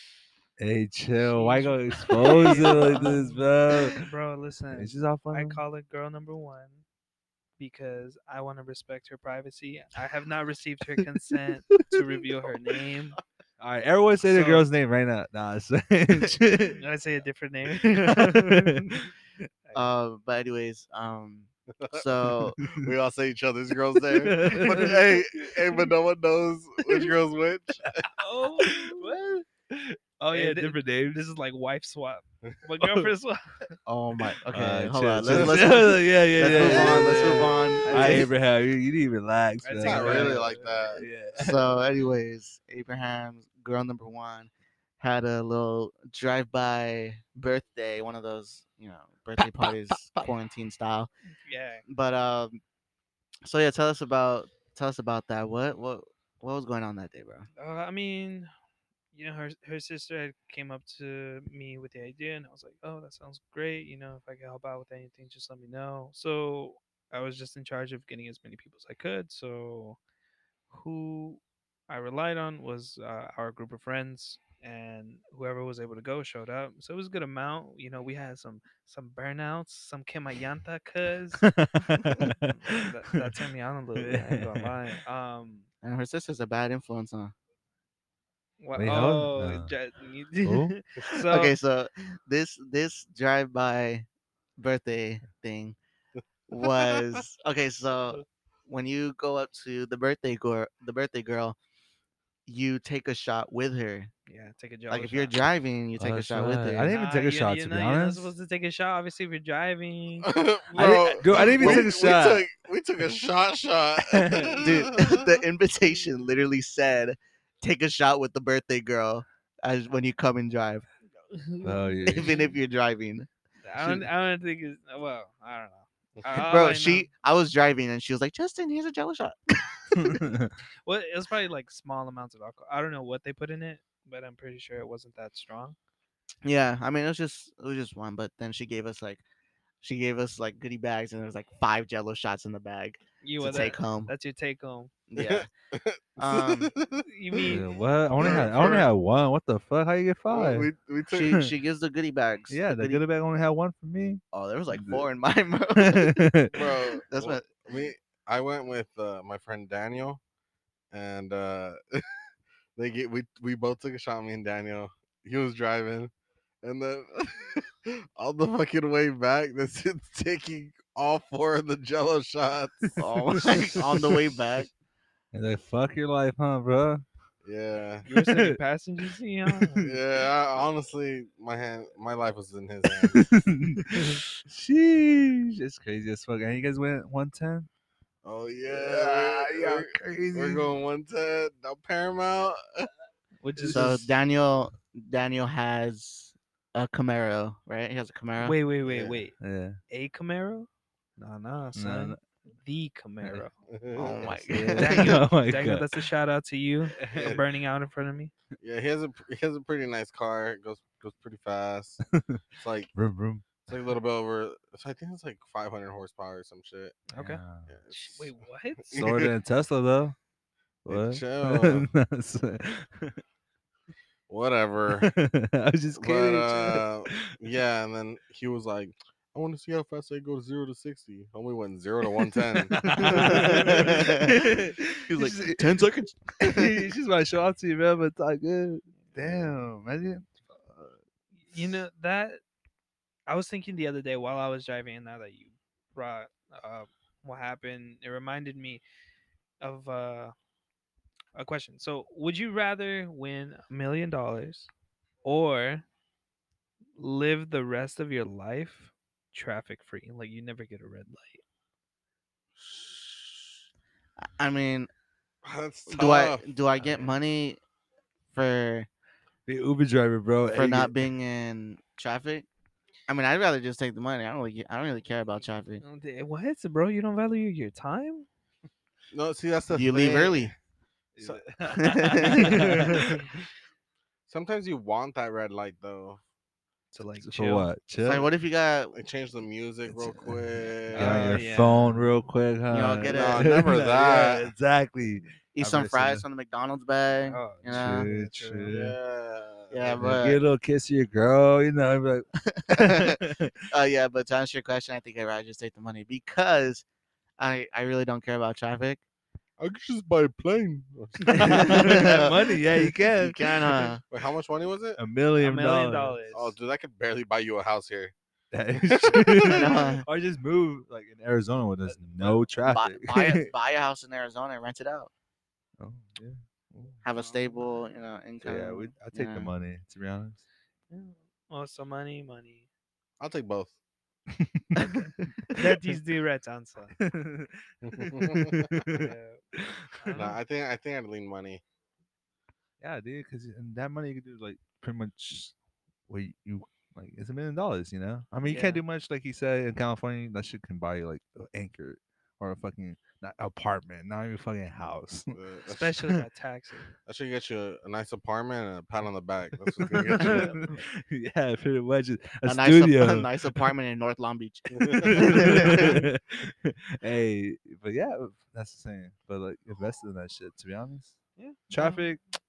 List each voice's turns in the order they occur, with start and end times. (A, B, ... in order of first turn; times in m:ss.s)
0:00.6-0:04.0 A
0:01.2-0:06.8 B
0:02.5-0:02.8 C
0:04.7-0:05.6 A
0:07.6-0:13.2 B
0:13.6-0:16.8 A
0:14.2-0:14.7 B
0:16.8-0:18.9 B
0:17.8-0:19.1 A
0:19.7-0:22.6 C
0:21.8-0:27.9 D
0:22.4-0:22.9 A
0:24.1-0:25.2 A
0:27.9-0:31.2 A
0:28.2-0:29.1 B
0:30.2-0:33.5 B
0:32.8-0:33.1 A
0:33.9-0:38.3 C
0:34.5-0:41.7 A
0:35.2-0:35.6 D
0:36.4-0:38.2 D
0:37.9-0:38.2 B
0:39.6-0:41.0 B
0:39.8-0:41.1 D
0:41.4-0:51.1 C
0:51.4-0:51.8 B
0:51.9-0:52.6 C
0:53.4-0:57.5 C
0:57.6-0:58.5 B
0:59.1-1:10.0 B
1:10.7-1:21.5 B
1:21.4-1:22.8 A
1:22.4-1:25.7 B
1:24.0-1:24.7 A
1:25.8-1:27.3 C
1:28.6-1:31.6 B
1:28.7-1:29.7 A
1:30.4-1:30.8 A
1:31.3-1:34.1 C
1:34.6-1:35.8 C
1:36.5-1:41.6 C
1:36.7-1:37.1 D
1:42.5-1:44.1 C
1:44.3-1:45.4 B
1:44.9-1:46.9 C
1:46.0-1:48.3 A
1:46.9-1:50.4 B
1:50.2-1:55.4 D
1:50.8-1:52.5 A
1:54.0-1:54.8 A
1:54.6-2:00.9 C
2:01.3-2:02.6 B
2:01.6-2:02.4 A
2:02.1-2:03.3 C
2:03.6-2:07.1 B
2:06.3-2:10.2 C
2:10.0-2:10.5 A
2:10.9-2:15.8 B
2:16.4-2:19.2 C
2:19.8-2:24.1 C
2:23.2-2:24.9 B
2:25.1-2:25.5 C
2:25.2-2:27.5 D
2:26.2-2:26.7 C
2:27.0-2:27.6 B
2:27.5-2:30.7 A
2:28.2-2:28.9 D
2:28.2-2:28.6 C
2:30.3-2:31.4 D
2:31.1-2:33.0 C
2:32.5-2:35.1 A
2:34.3-2:37.5 C
2:35.8-2:36.6 A
2:36.5-2:40.2 D
2:40.9-2:42.0 D
2:42.8-2:46.1 D
2:46.6-2:53.0 D
2:53.0-2:54.7 C
2:53.3-2:54.3 A
2:55.3-2:57.0 A
2:57.4-2:58.1 D
2:58.1-2:59.8 B
2:58.1-2:58.6 A
2:59.5-3:00.0 A
2:59.8-3:03.2 D
3:03.1-3:07.7 A
3:08.2-3:12.9 D
3:08.7-3:10.7 A
3:13.4-3:14.1 B
3:13.6-3:13.9 A
3:13.7-3:19.2 C
3:18.4-3:19.4 B
3:19.4-3:19.8 A
3:19.9-3:23.6 B
3:21.8-3:22.2 A
3:23.7-3:24.4 D
3:24.0-3:25.2 C
3:24.2-3:26.0 A
3:24.7-3:28.3 B
3:27.0-3:27.4 A
3:27.1-3:27.4 D
3:28.6-3:32.0 D
3:32.1-3:32.4 A
3:32.6-3:32.9 D
3:32.9-3:33.5 A
3:33.7-3:37.0 D
3:37.1-3:39.0 B
3:37.2-3:37.7 A
3:37.7-3:38.3 D
3:38.9-3:39.3 D
3:38.9-3:40.2 A
3:40.8-3:43.2 A
3:40.9-3:41.9 D
3:44.3-3:45.1 D
3:45.0-3:47.3 A
3:46.0-3:54.0 D
3:52.6-3:55.8 A
3:53.0-3:56.9 C
3:56.4-4:01.0 A
4:01.4-4:02.4 B
4:03.3-4:08.8 B
4:09.6-4:10.3 B
4:11.4-4:14.7 B
4:15.2-4:15.8 B
4:17.0-4:21.4 B
4:24.3-4:24.9 C
4:25.4-4:26.5 D
4:25.9-4:27.6 C
4:28.3-4:28.9 C
4:29.5-4:30.9 A
4:30.5-4:32.5 C
4:33.1-4:35.8 C
4:35.8-4:38.3 B
4:39.1-4:40.6 D
4:39.8-4:40.5 C
4:41.2-4:43.3 A
4:41.7-4:43.1 C
4:42.8-4:43.1 D
4:44.3-4:46.2 D
4:46.9-4:47.7 B
4:47.2-4:48.3 A
4:48.0-4:49.0 C
4:48.9-4:51.4 D
4:49.9-4:56.2 A
4:51.0-4:52.1 B
4:52.7-4:53.5 C
4:53.1-4:54.5 D
4:55.6-4:58.1 C
4:57.3-4:58.8 B
4:57.6-4:59.0 A
4:58.7-5:00.2 D
4:59.7-5:00.4 C
5:00.0-5:03.6 A
5:02.5-5:06.8 C
5:07.4-5:09.0 C
5:09.6-5:12.0 D
5:11.3-5:13.9 A
5:11.3-5:14.0 C
5:11.4-5:11.7 B
5:14.1-5:15.0 D
5:15.0-5:16.2 A
5:15.4-5:16.6 B
5:16.3-5:18.1 D
5:18.5-5:23.5 A
5:18.8-5:19.7 D
5:19.4-5:20.0 C
5:22.7-5:25.1 C
5:25.8-5:27.0 A
5:27.0-5:29.5 C
5:27.2-5:27.5 B
5:28.4-5:30.4 A
5:30.9-5:32.7 B
5:33.2-5:33.8 D
5:34.3-5:35.1 A
5:34.8-5:35.6 C
5:35.5-5:37.0 B
5:37.0-5:40.3 A
5:37.8-5:38.8 D
5:38.9-5:39.4 B
5:40.0-5:40.4 B
5:40.1-5:41.6 D
5:42.8-5:45.5 A
5:46.1-5:55.4 A
5:48.5-5:48.8 B
5:55.3-5:56.0 D
5:55.7-5:56.9 B
5:57.1-6:00.6 D
5:59.6-6:03.7 A
6:00.2-6:00.6 B
6:02.4-6:06.0 C
6:04.8-6:05.2 D
6:04.9-6:11.2 A
6:11.4-6:12.1 B
6:11.7-6:12.2 A